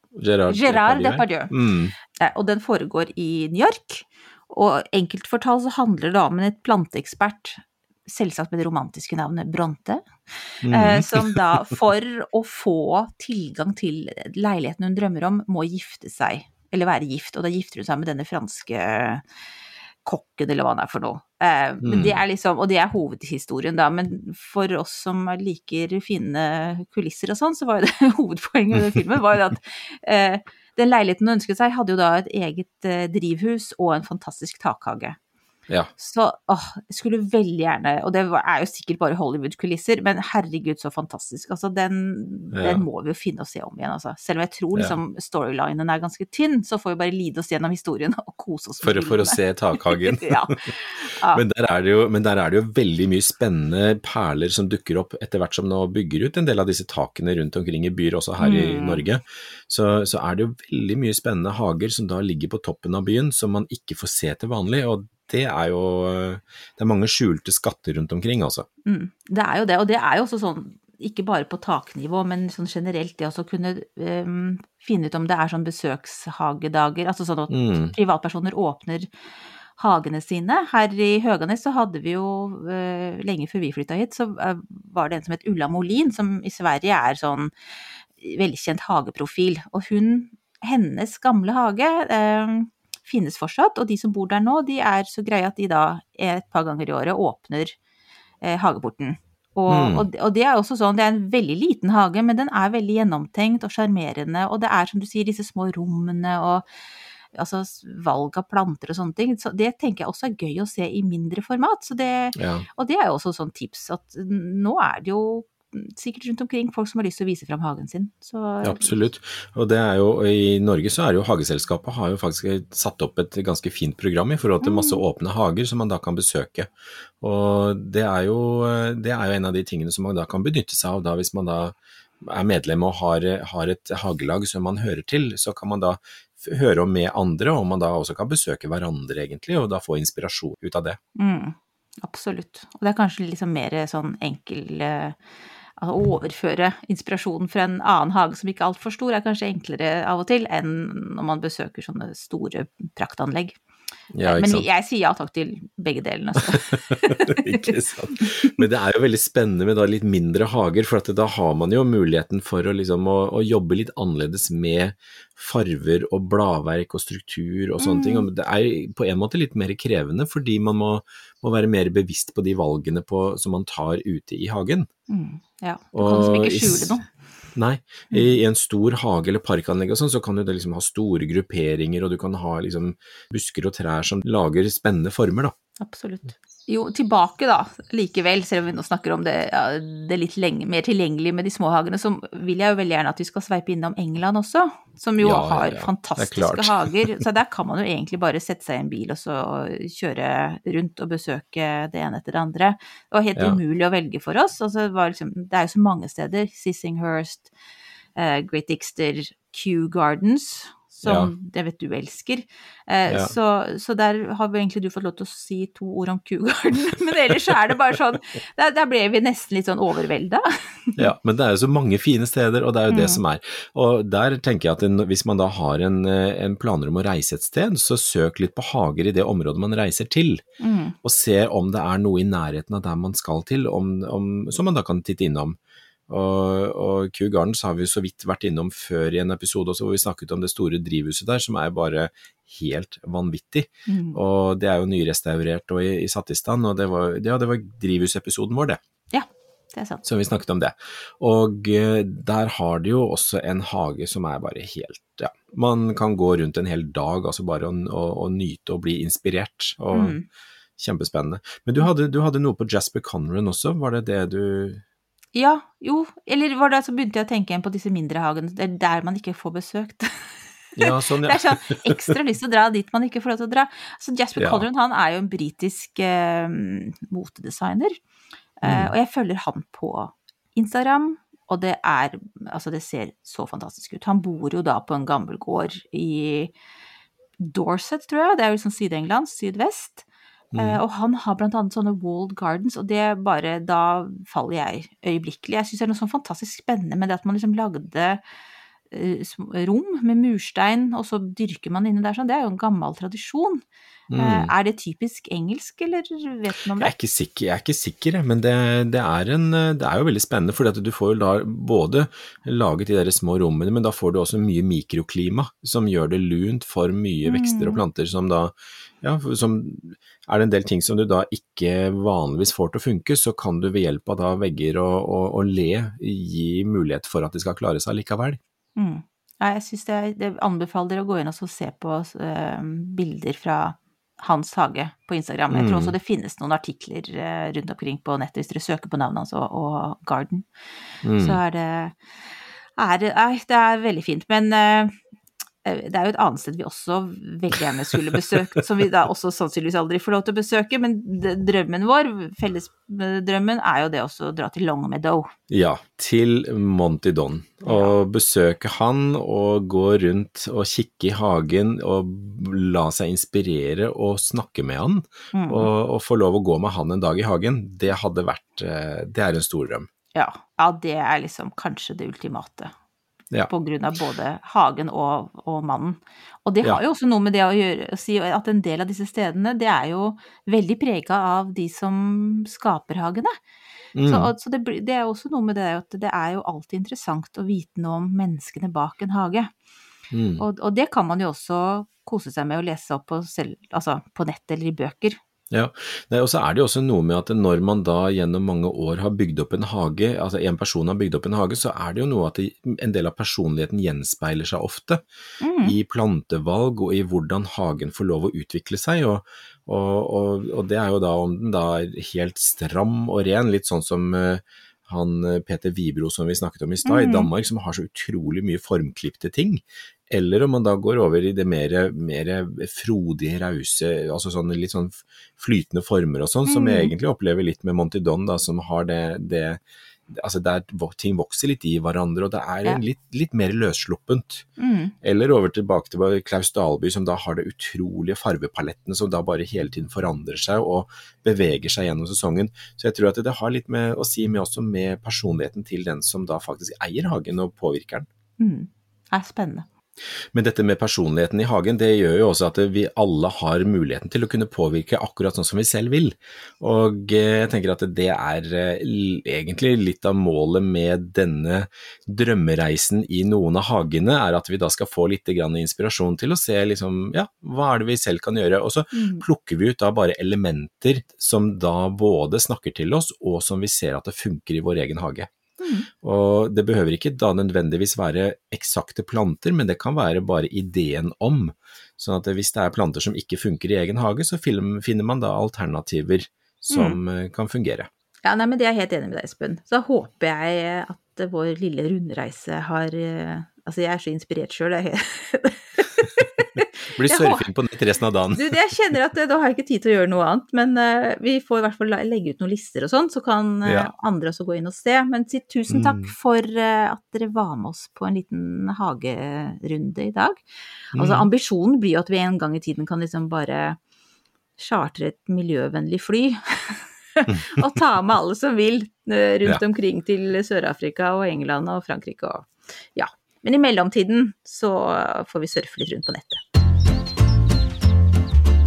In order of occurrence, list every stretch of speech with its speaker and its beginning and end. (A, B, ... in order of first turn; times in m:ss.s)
0:00.1-0:01.9 A
0:00.5-0:01.5 B
0:02.2-0:19.2 B
0:10.6-0:11.4 A
0:20.0-0:35.2 B
0:21.8-0:22.1 A
0:36.0-0:51.4 B
0:42.5-0:42.8 A
0:48.8-0:50.6 A
0:51.3-1:08.6 A
0:58.4-0:59.0 B
1:08.8-1:19.1 B
1:17.5-1:18.0 A
1:19.8-1:27.5 B
1:28.2-1:37.8 B
1:38.4-1:46.6 B
1:39.7-1:40.1 A
1:47.3-1:59.0 B
1:52.4-1:52.6 A
1:58.6-2:21.0 A
2:04.6-2:05.0 B
2:21.2-2:25.2 B
2:25.8-2:33.6 B
2:34.1-2:34.6 A
2:34.2-2:38.6 B
2:36.9-2:54.9 A
2:47.8-2:48.3 B
2:55.1-2:57.0 B
2:55.9-2:57.0 A
2:57.6-3:05.5 A
2:58.1-2:58.4 B
3:05.8-3:27.5 B
3:15.2-3:16.9 A
3:28.2-3:41.1 B
3:31.0-3:31.3 A
3:33.1-3:33.3 A
3:41.0-3:50.4 A
3:42.9-3:43.2 B
3:50.6-3:51.0 B
3:51.0-3:55.6 A
3:56.1-4:08.8 A
4:03.9-4:04.2 B
4:09.1-4:10.0 B
4:10.0-4:20.2 A
4:19.9-4:20.2 B
4:20.8-4:24.8 A
4:25.4-4:38.0 B
4:30.8-4:32.1 A
4:34.4-4:34.6 A
4:38.6-4:46.5 B
4:38.6-4:38.9 A
4:47.4-4:58.2 B
4:50.5-4:50.8 A
4:58.9-5:03.6 B
5:04.1-5:04.5 A
5:04.2-5:06.9 B
5:06.8-5:28.4 A
5:17.2-5:17.8 B
5:28.8-5:40.5 B
5:35.5-5:35.9 A
5:41.0-5:41.4 A
5:41.2-5:42.0 B
5:42.8-5:44.9 B
5:45.6-5:55.3 B
5:55.5-6:09.9 A
5:57.6-5:58.0 B
6:05.3-6:05.7 B
6:10.1-6:12.7 B
6:13.5-6:23.3 B
6:24.0-6:24.3 A
6:24.1-6:29.5 B
6:30.1-6:30.4 A
6:30.4-6:35.2 B
6:35.5-6:45.0 A
6:45.4-6:45.8 B
6:45.6-7:14.5 A
6:56.8-6:57.3 B
7:06.5-7:06.9 B
7:14.6-7:14.9 B
7:15.0-7:28.1 A
7:28.4-7:29.6 B
7:30.3-7:55.3 A
7:48.9-7:49.2 B
7:55.6-7:55.9 B
7:56.0-8:07.9 A
8:06.7-8:07.0 B
8:08.2-8:17.4 B
8:17.0-8:18.5 A
8:18.3-8:33.8 B
8:23.6-8:23.9 A
8:25.7-8:26.1 A
8:30.9-8:31.3 A
8:34.6-8:46.4 B
8:37.3-8:37.6 A